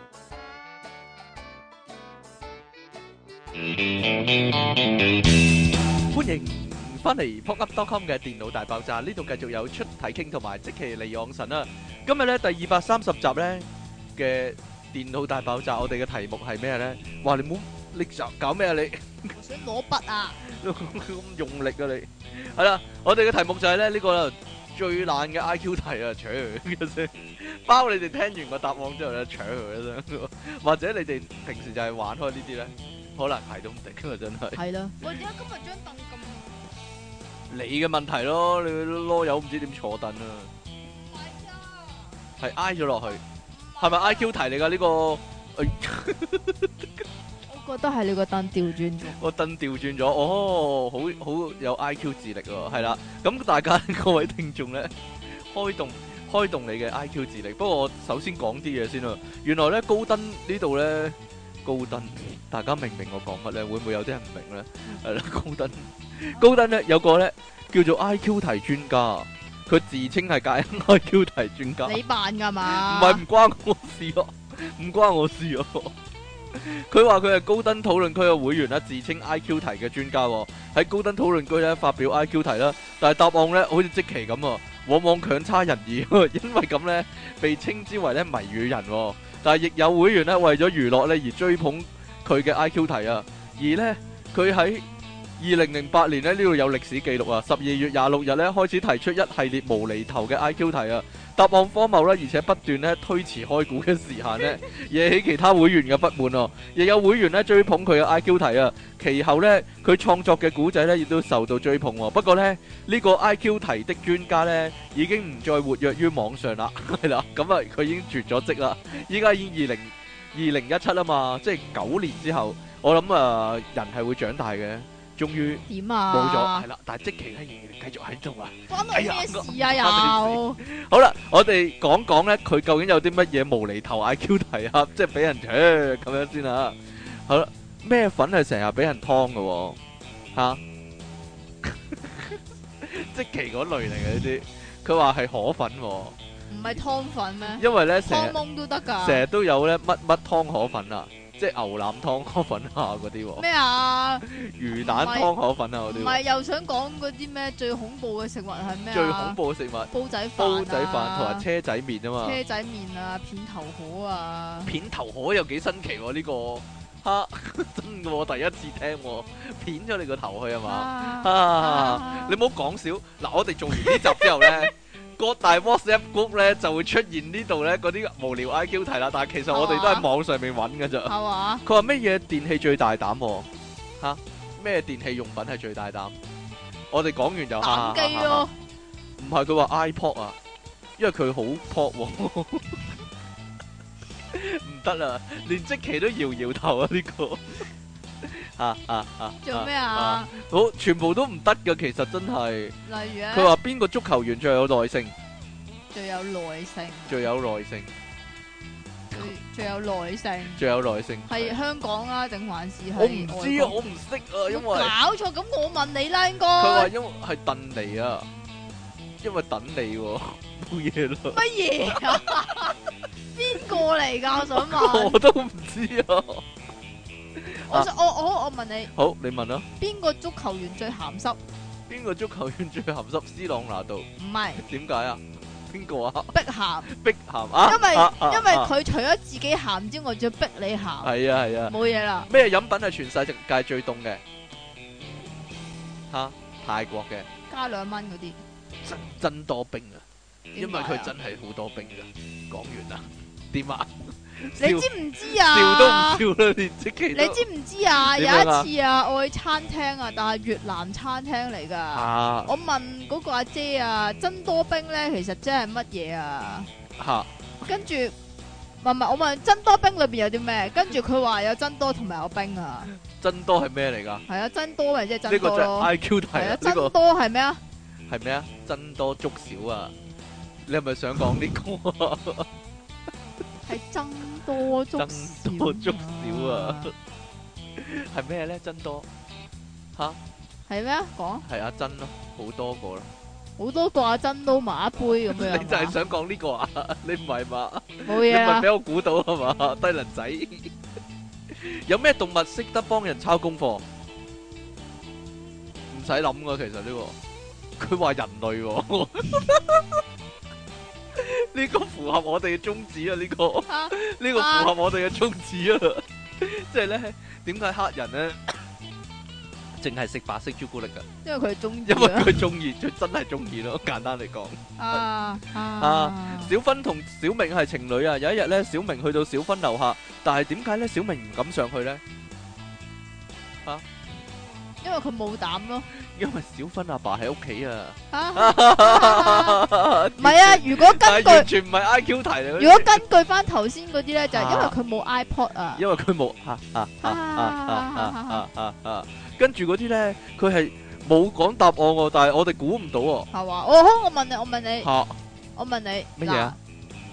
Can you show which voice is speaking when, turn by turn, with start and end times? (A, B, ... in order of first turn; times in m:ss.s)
0:06.1-0:19.3 A
0:19.3-0:20.4 B
0:20.4-0:34.6 A
0:34.6-0:36.6 B
0:37.5-0:40.5 A
0:40.9-0:42.2 B
0:42.4-0:43.2 A
0:43.5-0:44.3 B
0:43.8-0:47.0 A
0:47.5-0:49.2 B
0:49.0-1:12.0 A
1:11.8-1:13.2 B
1:12.6-1:15.9 A
1:16.5-1:34.8 A
1:35.4-2:19.8 A
2:05.7-2:06.7 B
2:08.7-2:10.6 B
2:20.3-2:20.6 A
2:21.6-2:26.2 A
2:26.5-2:29.2 B
2:27.6-2:28.4 A
2:29.0-2:33.4 A
2:33.4-2:35.3 B
2:34.2-2:36.2 A
2:35.9-2:39.4 B
2:38.9-2:42.4 A
2:39.9-2:41.4 B
2:42.2-2:44.7 B
2:44.6-3:03.5 A
2:50.6-2:52.4 B
2:53.7-2:54.7 B
2:59.5-3:00.1 B
3:01.0-3:01.6 B
3:04.0-3:06.2 A
3:06.9-3:08.5 A
3:07.6-3:08.5 B
3:09.2-3:10.4 A
3:11.0-3:12.9 A
3:14.3-3:17.7 A
3:18.2-3:22.7 A
3:19.4-3:20.3 B
3:22.8-3:23.5 B
3:23.3-3:25.1 A
3:25.9-3:27.3 B
3:27.1-3:27.9 A
3:29.1-3:30.6 B
3:30.5-3:31.6 A
3:31.3-3:33.8 B
3:33.0-3:34.9 A
3:34.5-3:36.9 B
3:36.6-3:38.3 A
3:39.2-3:42.7 A
3:41.3-3:42.8 B
3:43.3-3:45.2 B
3:44.3-3:46.4 A
3:47.4-3:47.9 A
3:47.7-3:48.9 B
3:48.9-3:49.7 A
3:49.8-3:51.4 B
3:51.9-3:56.3 A
3:54.2-3:54.6 B
3:56.3-3:56.9 B
3:56.8-3:58.7 A
3:57.6-4:01.1 B
4:01.0-4:01.8 A
4:01.7-4:02.3 B
4:02.3-4:04.2 A
4:06.1-4:07.3 A
4:07.5-4:08.4 B
4:08.8-4:10.0 A
4:10.5-4:11.1 B
4:10.5-4:17.4 A
4:14.6-4:16.2 B
4:17.1-4:26.7 B
4:18.0-4:18.7 A
4:21.9-4:22.5 A
4:27.0-4:27.3 A
4:27.6-4:28.1 B
4:28.8-4:32.9 B
4:33.0-4:34.2 A
4:34.3-4:37.6 B
4:35.3-4:36.9 A
4:38.1-4:39.9 A
4:40.6-4:42.5 A
4:43.6-4:46.9 B
4:45.0-4:46.9 A
4:47.8-4:49.1 A
4:50.7-4:51.4 B
4:51.4-4:53.1 A
4:53.6-4:56.0 B
4:55.0-5:00.7 A
4:58.0-4:58.7 B
5:01.5-5:03.8 A
5:05.9-5:07.2 A
5:07.8-5:10.0 A
5:11.1-5:18.6 A
5:13.7-5:14.7 B
5:19.8-5:21.0 A
5:21.2-5:22.5 B
5:21.9-5:25.0 A
5:24.8-5:26.5 B
5:25.6-5:32.0 A
5:34.8-5:35.9 B
5:35.9-5:43.0 A
5:38.1-5:39.6 B
5:40.2-5:41.5 B
5:42.6-5:45.8 B
5:44.3-5:44.8 A
5:45.8-5:53.3 A
5:47.0-5:48.4 B
5:53.3-5:54.9 B
5:54.8-5:55.2 A
5:55.6-5:56.6 B
5:56.2-5:56.6 A